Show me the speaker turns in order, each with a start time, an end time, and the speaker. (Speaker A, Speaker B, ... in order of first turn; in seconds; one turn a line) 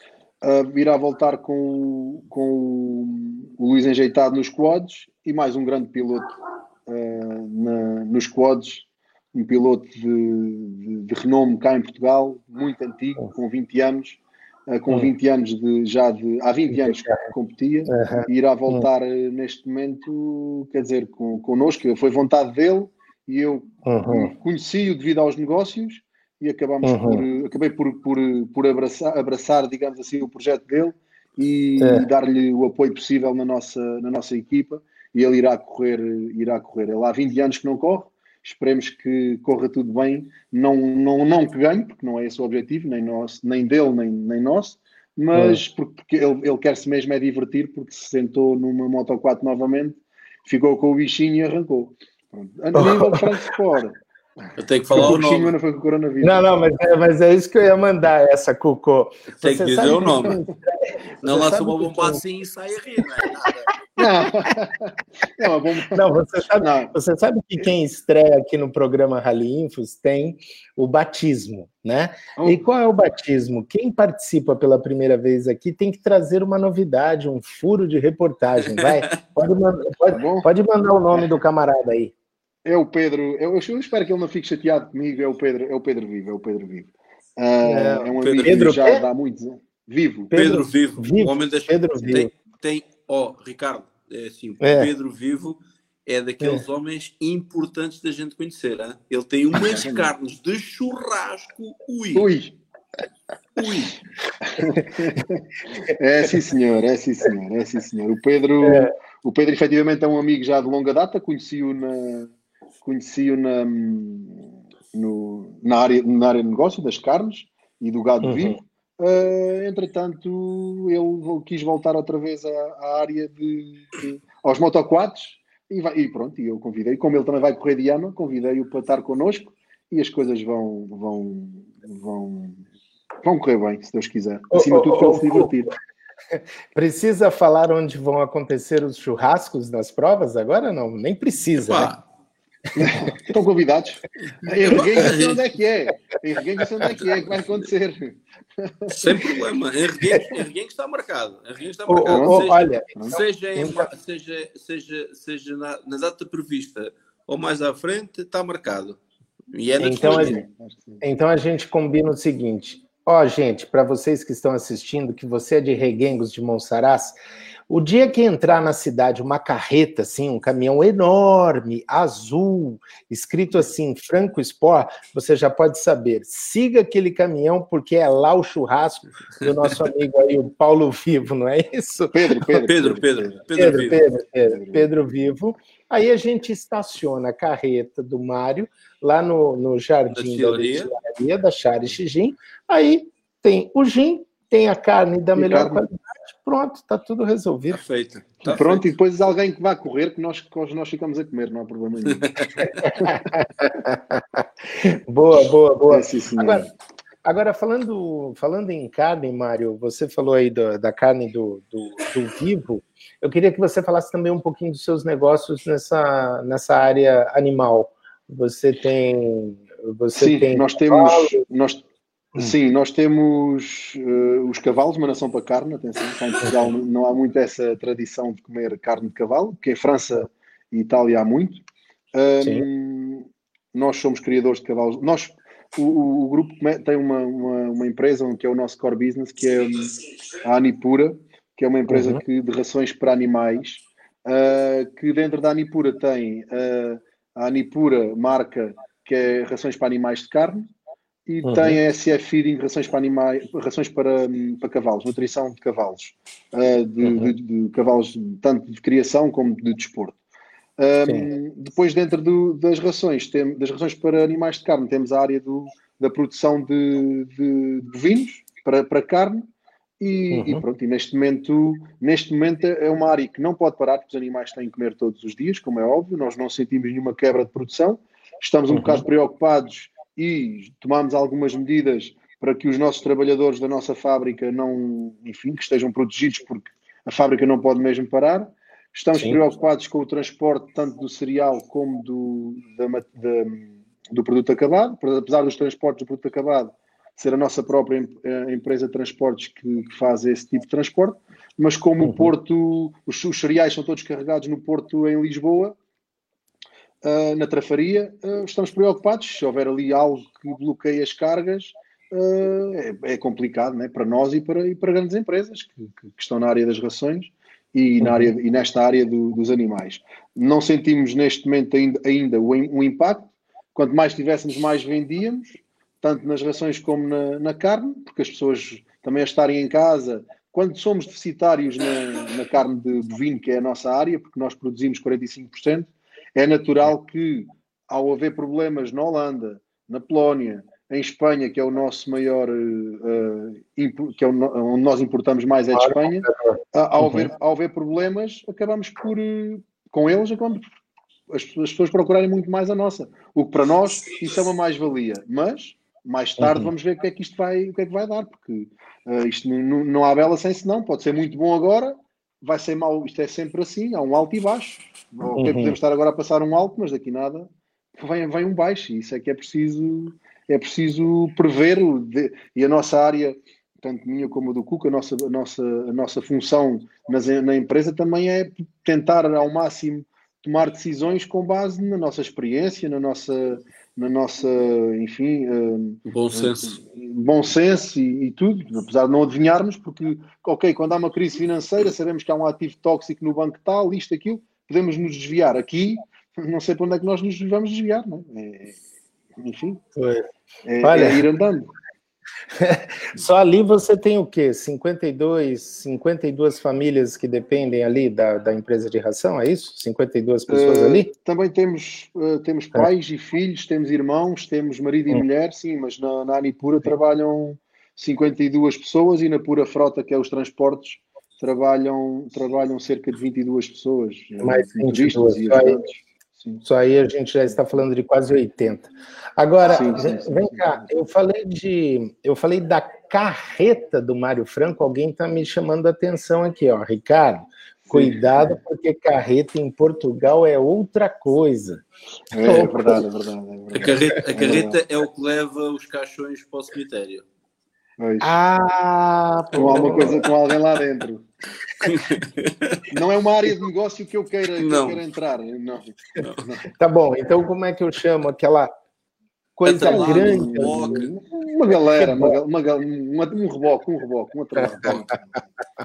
Speaker A: 0.4-56.5
Speaker B: 17.9-18.9
Speaker B: 23.9-24.3
Speaker B: 26.8-27.2
Speaker B: 31.8-32.1
Speaker B: 45.3-45.6
Speaker B: 52.8-53.3
Speaker C: 54.6-55.5
Speaker B: 56.2-62.2
Speaker C: 59.4-60.4
Speaker C: 61.2-63.7
Speaker A: 64.0-66.0
Speaker B: 65.9-82.1
Speaker A: 66.6-66.9
Speaker A: 72.4-72.6
Speaker A: 80.1-80.5
Speaker A: 82.7-90.3
Speaker B: 87.6-89.0
Speaker C: 88.1-88.7
Speaker B: 90.3-92.3
Speaker C: 90.3-102.3
Speaker B: 94.6-94.9
Speaker A: 99.6-100.1
Speaker A: 102.2-102.6
Speaker C: 103.6-104.0
Speaker A: 104.5-132.6
Speaker B: 108.6-108.9
Speaker B: 118.2-118.6
Speaker A: 133.2-135.7
Speaker B: 134.5-135.6
Speaker B: 136.7-141.9
Speaker C: 141.7-142.0
Speaker A: 142.8-149.3
Speaker C: 144.7-145.5
Speaker C: 148.9-159.0
Speaker B: 151.9-153.9
Speaker A: 152.1-152.4
Speaker A: 153.0-153.2
Speaker C: 159.5-160.4
Speaker B: 159.8-160.4
Speaker A: 160.0-161.0
Speaker B: 161.0-167.2
Speaker B: 167.7-182.5
Speaker A: 182.1-184.0
Speaker C: 182.6-184.1
Speaker B: 183.6-197.8
Speaker A: 184.5-184.9
Speaker C: 190.1-190.9
Speaker A: 195.4-195.8
Speaker C: 197.7-198.8
Speaker A: 198.4-202.3
Speaker C: 202.1-202.7
Speaker B: 202.7-206.7
Speaker A: 202.9-203.2
Speaker A: 205.9-206.7
Speaker B: 207.2-221.4
Speaker A: 220.2-221.8
Speaker A: 222.4-250.7
Speaker B: 241.9-242.2
Speaker A: 251.3-260.2
Speaker B: 251.4-251.8
Speaker B: 257.0-257.3
Speaker A: 260.8-269.5
Speaker A: 270.0-305.8
Speaker B: 270.3-270.6
Speaker B: 278.7-279.0
Speaker B: 302.0-302.3
Speaker A: 307.0-350.6
Speaker B: 318.0-318.3
Speaker B: 345.8-347.3
Speaker A: 351.3-398.8
Speaker B: 356.4-356.7
Speaker B: 365.4-365.8
Speaker C: 386.1-386.8
Speaker A: 399.4-399.8
Speaker B: 400.0-400.3
Speaker A: 400.6-401.7
Speaker B: 400.8-401.2
Speaker B: 402.6-411.1
Speaker A: 410.5-426.6
Speaker B: 424.4-425.8
Speaker B: 426.6-441.8
Speaker A: 429.7-430.8
Speaker A: 437.9-438.6
Speaker A: 442.3-444.8
Speaker B: 442.4-443.1
Speaker C: 443.7-447.2
Speaker A: 448.0-448.4
Speaker B: 448.2-450.2
Speaker A: 449.5-451.3
Speaker C: 451.8-452.8
Speaker A: 452.9-456.7
Speaker C: 454.6-455.0
Speaker C: 456.2-456.5
Speaker B: 456.8-458.7
Speaker B: 459.6-461.0
Speaker C: 459.7-461.1
Speaker A: 459.9-465.4
Speaker B: 462.0-462.4